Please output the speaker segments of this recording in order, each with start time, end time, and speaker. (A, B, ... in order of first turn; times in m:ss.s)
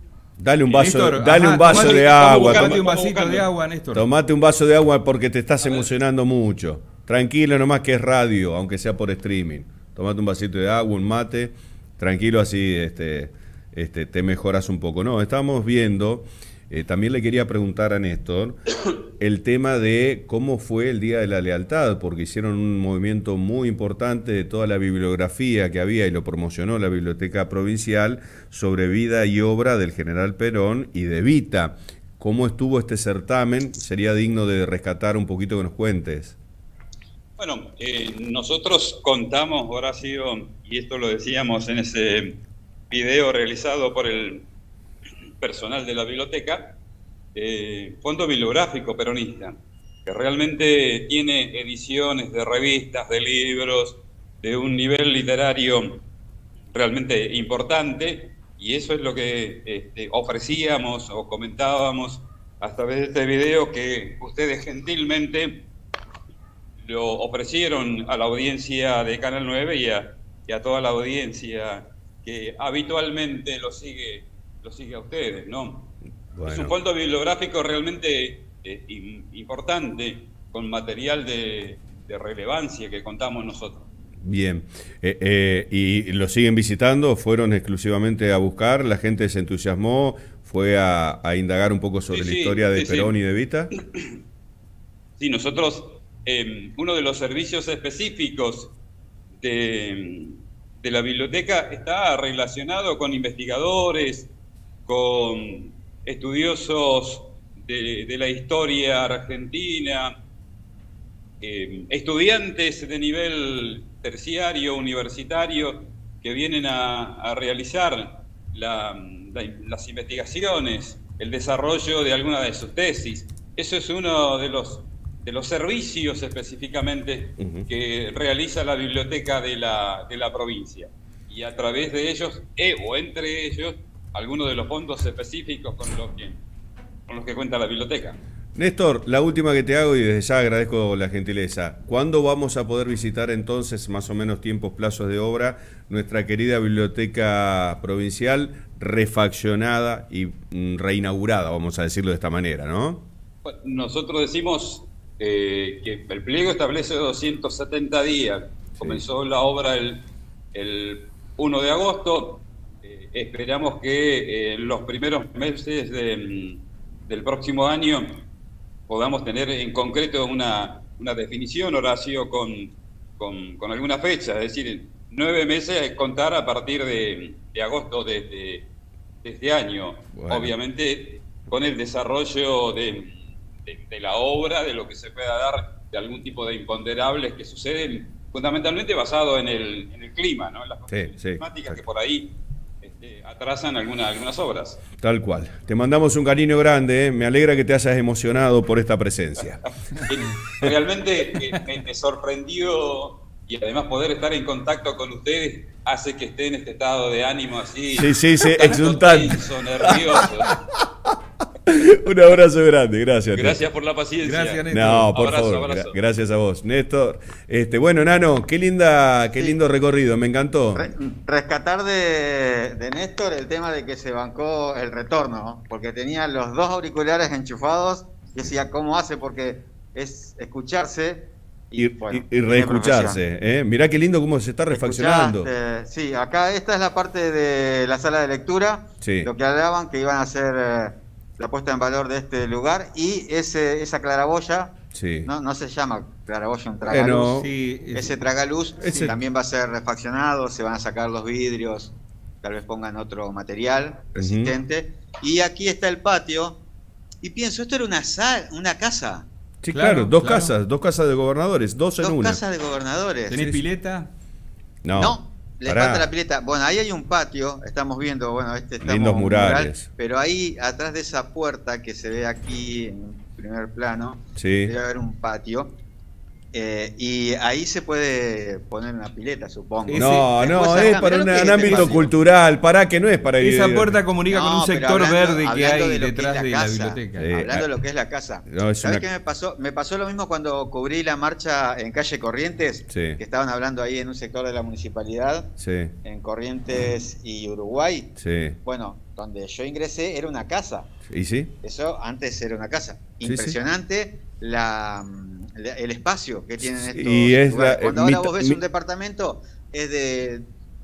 0:00.4-0:02.8 A
0:00.7-0:04.1 B
0:01.7-0:03.5 C
0:03.9-0:18.6 A
0:05.6-0:05.9 C
0:19.2-0:36.4 A
0:37.4-0:42.4 C
0:42.9-0:44.4 C
0:45.4-0:46.8 C
0:47.3-0:56.0 C
0:56.7-1:05.6 C
1:06.8-1:15.9 C
1:16.3-1:16.7 A
1:16.4-1:23.9 C
1:24.2-1:33.7 A
1:32.1-1:33.2 C
1:35.2-1:38.7 C
1:39.4-1:44.3 C
1:44.8-1:50.1 C
1:51.4-2:16.4 C
2:07.4-2:07.7 A
2:17.1-2:18.2 C
2:18.5-2:33.1 A
2:33.4-2:48.2 C
2:38.8-2:39.0 A
2:48.9-2:58.7 C
2:59.2-3:14.8 C
3:00.2-3:00.5 A
3:10.9-3:11.8 A
3:15.0-3:19.7 A
3:20.0-3:30.6 C
3:27.9-3:30.5 A
3:31.6-3:33.6 A
3:33.3-3:36.0 C
3:34.2-3:35.1 B
3:34.7-3:40.8 A
3:40.8-3:53.2 D
3:51.8-3:55.5 A
3:54.7-4:04.7 D
3:59.0-3:59.3 A
4:04.9-4:05.3 A
4:05.2-4:07.3 D
4:06.8-4:07.5 A
4:07.3-4:08.2 B
4:07.9-4:16.6 D
4:08.8-4:09.2 A
4:14.1-4:14.5 A
4:17.2-4:19.2 D
4:19.6-4:22.4 A
4:19.7-4:20.5 B
4:22.0-4:23.4 D
4:23.3-4:24.1 B
4:24.8-4:26.1 A
4:24.9-4:35.7 D
4:28.8-4:29.9 A
4:34.4-4:34.7 A
4:36.5-4:42.1 D
4:39.8-4:40.3 B
4:39.9-4:44.0 A
4:41.3-4:42.0 B
4:43.4-4:47.3 B
4:44.3-4:55.5 D
4:47.2-4:47.7 A
4:48.5-4:49.0 A
4:52.9-4:53.2 A
4:55.6-4:55.9 A
4:56.0-4:58.1 D
4:58.2-4:58.6 A
4:58.6-5:00.9 D
5:01.1-5:01.5 A
5:01.6-5:10.4 D
5:03.2-5:03.6 A
5:06.6-5:08.6 A